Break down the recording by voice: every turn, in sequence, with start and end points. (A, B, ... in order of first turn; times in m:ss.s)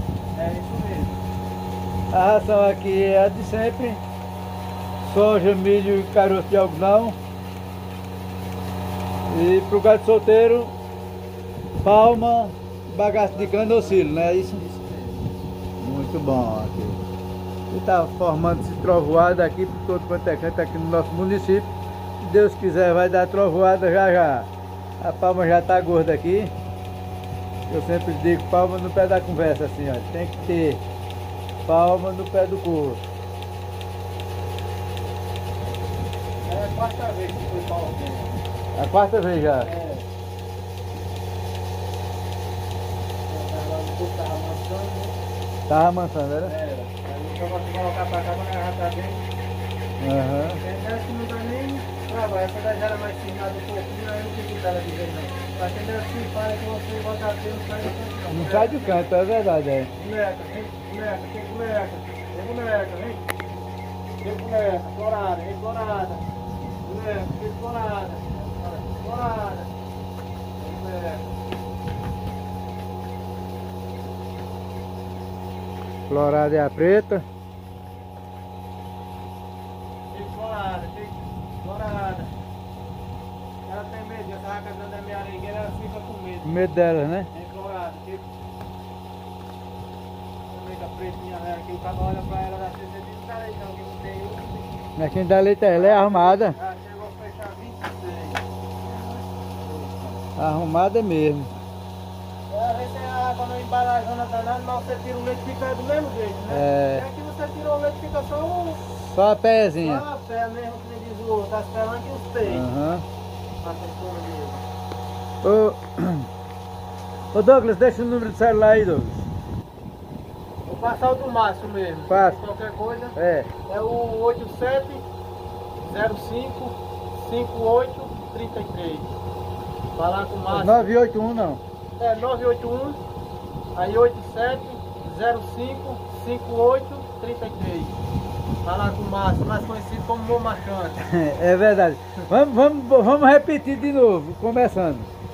0:00.3-0:01.2 A
0:02.1-0:04.0 B
0:05.0-0:07.2 B
0:09.3-0:10.7 B
0:11.8-0:14.6 B
0:13.1-0:15.2 A
0:15.8-0:17.0 B
0:17.7-0:24.5 B
0:25.0-0:26.5 B
0:27.7-0:30.8 B
0:31.7-0:33.0 B
0:36.5-0:38.4 A
0:38.8-0:39.7 B
0:39.6-0:40.1 A
0:43.3-0:45.1 A
0:45.7-0:46.5 B
0:46.4-0:49.2 A
0:50.0-0:50.6 B
0:50.5-0:59.0 A
0:58.3-0:59.9 B
1:00.0-1:03.2 A
1:04.2-1:06.2 A
1:06.8-1:09.7 A
1:10.6-1:11.3 A
1:16.1-1:17.3 B
1:20.1-1:22.3 A
1:23.7-1:26.6 A
1:26.4-1:27.3 B
1:27.3-1:28.3 A
1:30.5-1:34.9 A
1:35.0-1:36.6 B
1:35.7-1:38.5 A
1:39.4-1:40.2 A
1:40.4-1:41.5 B
1:42.5-1:48.8 A
1:46.5-1:47.1 B
1:48.9-1:50.0 B
1:49.8-1:52.7 A
1:52.4-1:53.0 B
1:53.6-1:54.6 A
1:55.4-1:56.3 B
1:57.3-1:59.3 B
2:00.7-2:05.0 A
2:02.1-2:02.4 B
2:03.2-2:03.5 B
2:05.8-2:09.2 A
2:10.0-2:10.9 A
2:10.5-2:11.6 B
2:12.0-2:13.0 A
2:13.8-2:18.0 A
2:18.6-2:21.0 A
2:21.0-2:25.1 B